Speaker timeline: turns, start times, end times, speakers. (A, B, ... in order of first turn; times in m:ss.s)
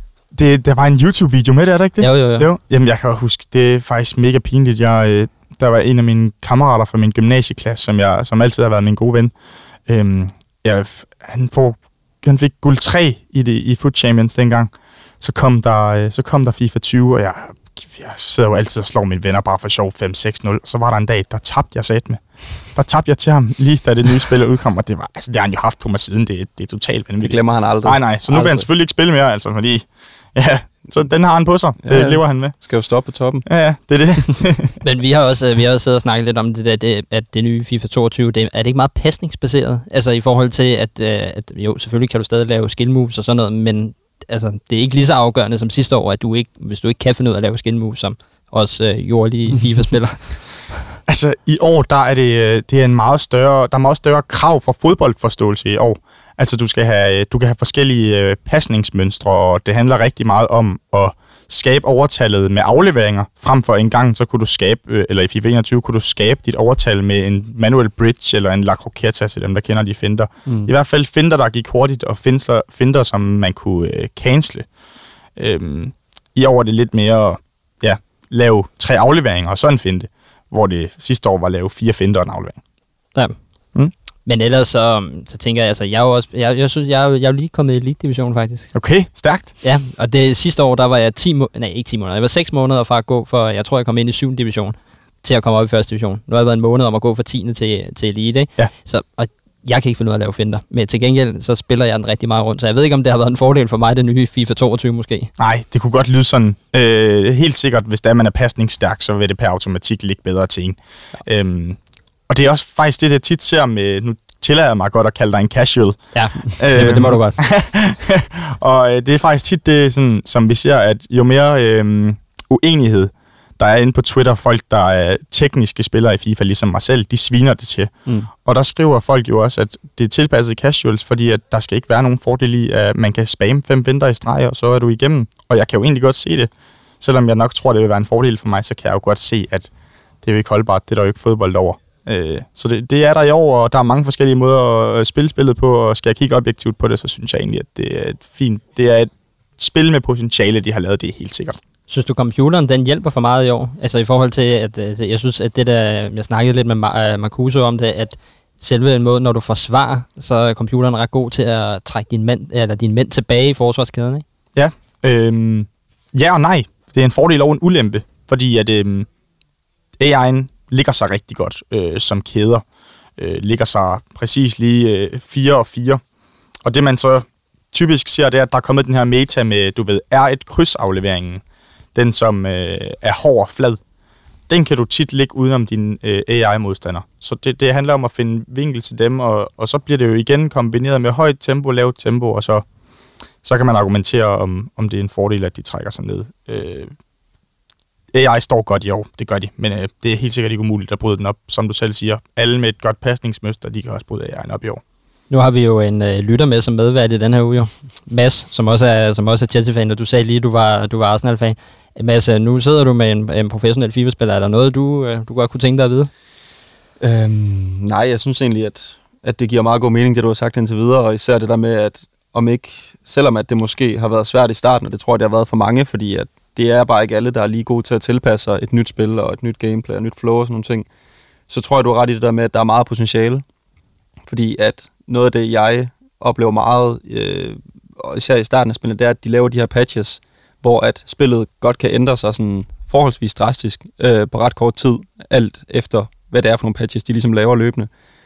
0:00.3-0:32.5 A
0:02.0-0:02.5 B
0:27.2-0:28.7 C
0:31.8-0:33.5 C
0:33.4-0:34.8 A
0:34.8-0:50.5 B
0:51.1-1:14.7 A
1:15.3-1:22.6 A
1:24.2-1:28.7 B
1:28.7-1:29.5 A
1:29.6-1:45.3 B
1:45.4-2:07.9 A
1:56.1-1:57.4 B
1:56.8-1:57.1 C
2:08.4-2:19.7 A
2:20.2-2:31.6 A
2:31.9-2:44.2 B
2:44.5-2:49.1 A
2:50.0-2:52.6 A
2:53.2-2:56.0 A
2:56.6-3:01.4 A
3:01.9-3:03.8 A
3:04.5-3:12.7 A
3:13.4-3:16.9 A
3:18.1-3:24.8 A
3:25.3-3:36.1 B
3:37.0-3:50.9 C
3:51.5-3:53.4 C
3:54.2-4:07.9 C